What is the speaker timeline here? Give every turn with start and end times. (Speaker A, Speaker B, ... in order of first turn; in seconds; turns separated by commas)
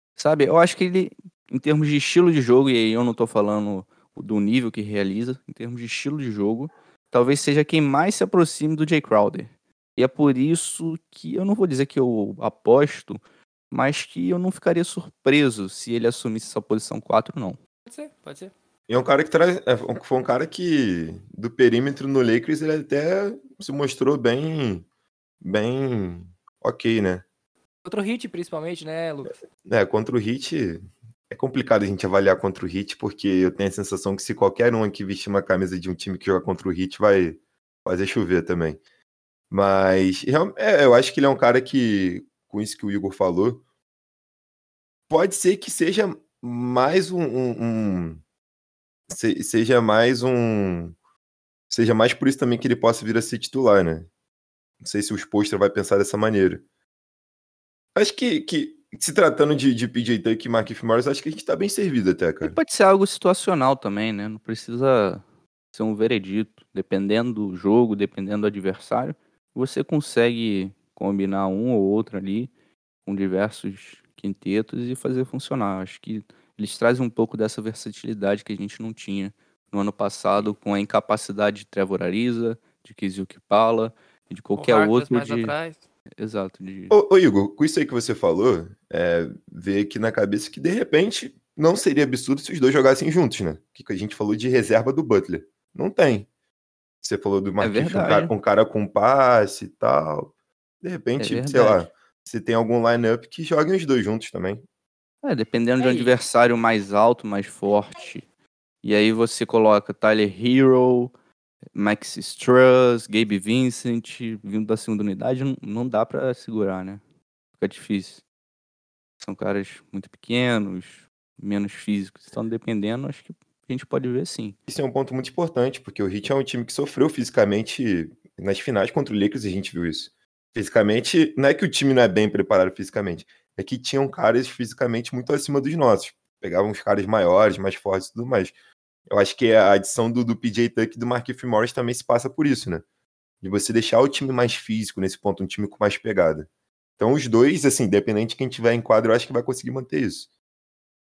Speaker A: 0.2-17.6, Speaker B: 17.9-18.5, Speaker C: 18.9-24.9, Speaker C: 25.4-27.2, Speaker B: 27.9-29.4, Speaker C: 29.6-38.8, Speaker C: 39.5-43.6, Speaker C: 45.1-48.2, Speaker C: 49.1-51.0, Speaker C: 51.7-54.1, Speaker C: 54.8-56.6, Speaker C: 58.0-62.6, Speaker A: 62.4-65.2, Speaker A: 65.7-72.5, Speaker A: 73.1-85.5, Speaker B: 84.6-85.8, Speaker A: 86.2-87.0, Speaker C: 86.9-96.3, Speaker C: 97.0-100.3, Speaker A: 97.6-98.3, Speaker C: 100.8-104.6, Speaker A: 101.2-101.9, Speaker A: 105.2-108.2, Speaker B: 105.8-106.1, Speaker A: 108.8-111.1, Speaker A: 111.8-117.0, Speaker A: 117.6-118.2, Speaker A: 119.2-124.5, Speaker C: 124.7-138.5, Speaker C: 139.1-142.8, Speaker C: 143.4-146.5, Speaker C: 147.0-150.3